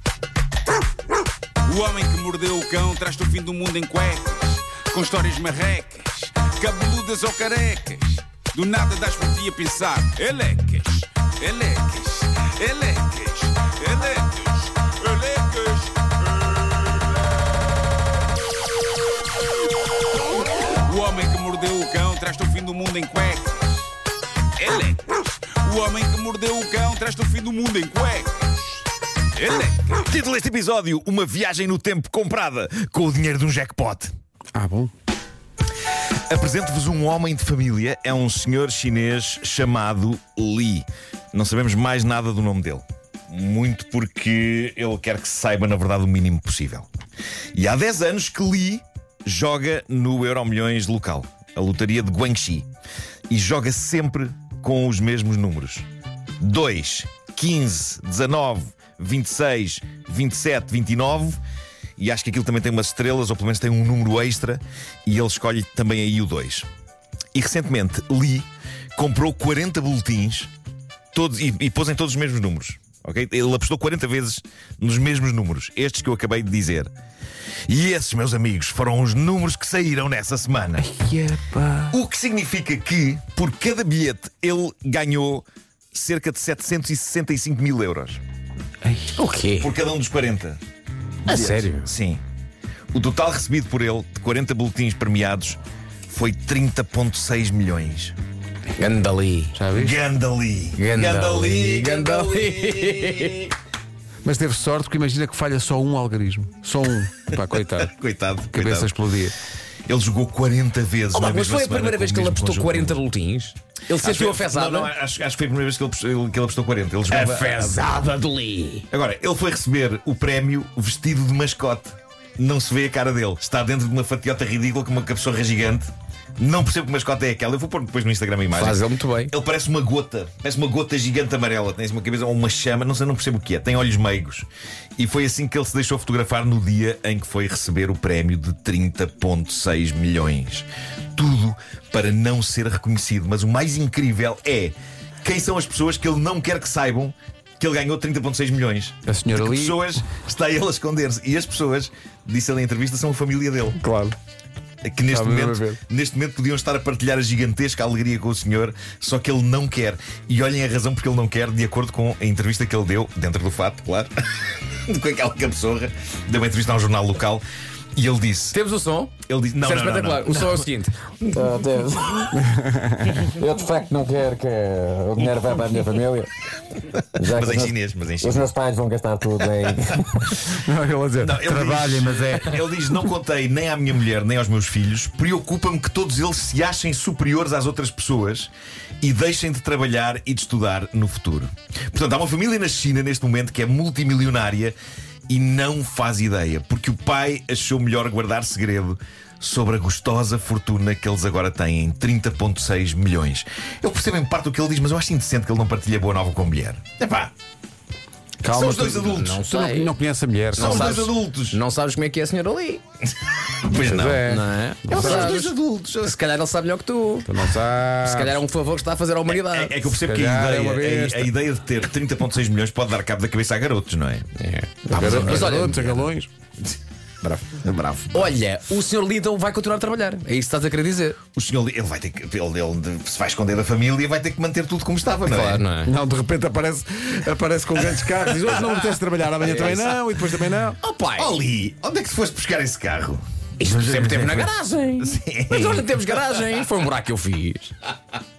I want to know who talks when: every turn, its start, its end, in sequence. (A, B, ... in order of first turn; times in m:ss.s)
0:01.7-0:17.2 A
0:20.7-0:23.9 A
0:24.6-0:28.8 A
0:29.4-0:30.0 A
0:30.0-0:34.1 B
0:34.5-0:34.9 C
0:36.3-0:46.9 B
0:47.6-0:52.7 B
0:53.3-0:55.9 B
0:56.4-1:01.4 B
1:02.0-1:06.7 B
1:07.3-1:10.5 B
1:11.1-1:16.9 B
1:17.7-1:20.9 B
1:20.8-1:22.0 C
1:21.9-1:28.2 B
1:28.8-1:29.2 C
1:29.2-1:29.7 D
1:29.6-1:30.6 B
1:31.3-1:31.9 D
1:31.3-1:32.2 B
1:32.9-1:38.2 B
1:38.8-1:39.6 D
1:39.5-1:40.0 C
1:39.7-1:43.5 B
1:40.8-1:43.5 D
1:44.2-1:47.9 C
1:47.6-1:49.0 B
1:48.5-1:49.4 C
1:49.9-1:53.0 B
1:51.1-1:54.9 D
1:54.0-1:57.9 B
1:57.1-1:58.8 D
1:58.9-2:33.8 B
2:08.5-2:09.3 D
2:29.1-2:29.9 C
2:33.8-2:34.2 C
2:34.8-2:47.4 B
2:35.1-2:35.8 C
2:48.0-2:48.6 B
2:48.5-2:50.9 D
2:49.3-2:50.7 B
2:51.3-2:52.3 E
2:52.4-2:53.2 C
2:53.2-2:56.3 E
2:57.2-2:58.5 B
2:57.2-3:00.4 E
3:00.5-3:02.6 C
3:01.2-3:14.8 B
3:15.3-3:27.3 B
3:28.4-3:31.0 C
3:28.5-3:29.4 B
3:29.1-3:30.0 D
3:30.5-3:32.8 D
3:30.6-3:31.6 B
3:33.2-3:34.2 B
3:33.8-3:35.4 C
3:33.9-3:37.3 D
3:34.9-3:36.2 B
3:37.3-3:38.4 C
3:38.0-3:39.9 D
3:39.3-3:44.3 B
3:40.0-3:41.3 C
3:44.4-3:46.1 D
3:44.9-3:45.7 B
3:44.9-3:46.3 C
3:47.2-3:47.6 D
3:47.6-3:48.3 C
3:48.1-3:51.2 D
3:51.3-3:55.6 B
3:55.3-3:55.9 D
3:55.9-4:00.8 C
3:59.4-4:00.0 D
4:00.8-4:01.3 D
4:01.2-4:06.0 B
4:03.6-4:07.8 D